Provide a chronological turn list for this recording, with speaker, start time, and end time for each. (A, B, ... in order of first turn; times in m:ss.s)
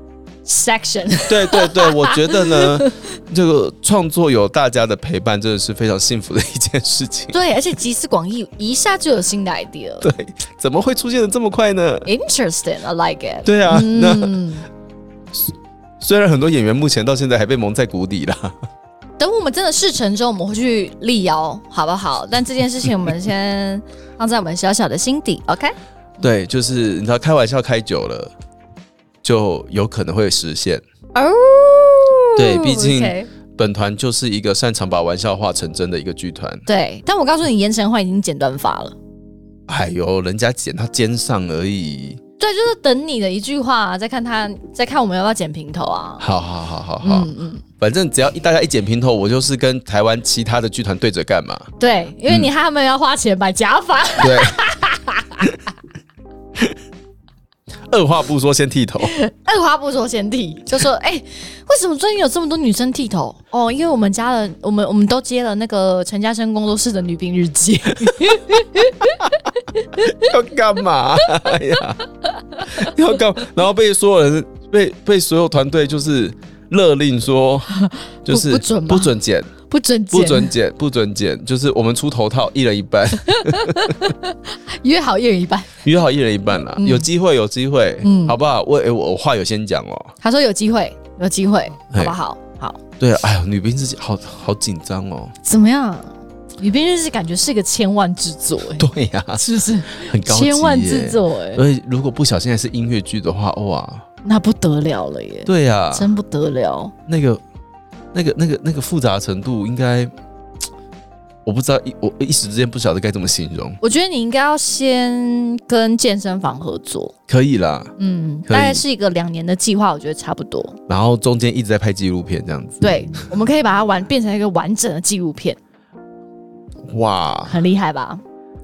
0:00.4-0:02.9 A
0:01.3-0:07.3 B
0:07.3-0:10.1 A
0:10.0-0:12.1 B
0:12.0-0:14.6 A
0:13.4-0:14.3 B
0:15.3-0:18.6 B
0:19.2-0:25.7 A
0:26.2-0:28.3 B
0:29.2-0:30.8 B
0:31.1-0:33.3 A
0:32.4-0:36.6 B
0:36.6-0:38.9 A
0:39.7-0:42.2 B
0:42.4-0:46.2 A
0:46.2-0:51.7 B
0:47.0-0:47.6 A
0:51.8-0:55.5 A
0:54.2-0:54.6 B
0:57.9-0:59.1 B
0:59.0-1:10.1 A
1:10.0-1:12.0 B
1:12.6-1:17.7 B
1:17.8-1:19.1 A
1:18.2-1:19.5 B
1:19.7-1:20.5 A
1:20.1-1:24.0 B
1:23.3-1:25.8 A
1:25.8-1:30.1 B
1:26.8-1:27.0 A
1:28.0-1:28.3 A
1:30.2-1:32.8 A
1:33.0-1:35.3 B
1:35.4-1:41.6 A
1:38.8-1:44.0 B
1:44.2-1:46.9 A
1:45.4-1:46.1 B
1:47.1-1:47.4 B
1:48.1-1:50.1 B
1:51.4-1:53.8 B
1:53.8-1:57.1 A
1:57.3-1:57.9 B
1:58.0-2:00.8 A
1:58.5-1:58.8 B
2:00.9-2:02.9 B
2:02.8-2:05.6 A
2:06.9-2:07.6 B
2:07.5-2:08.2 A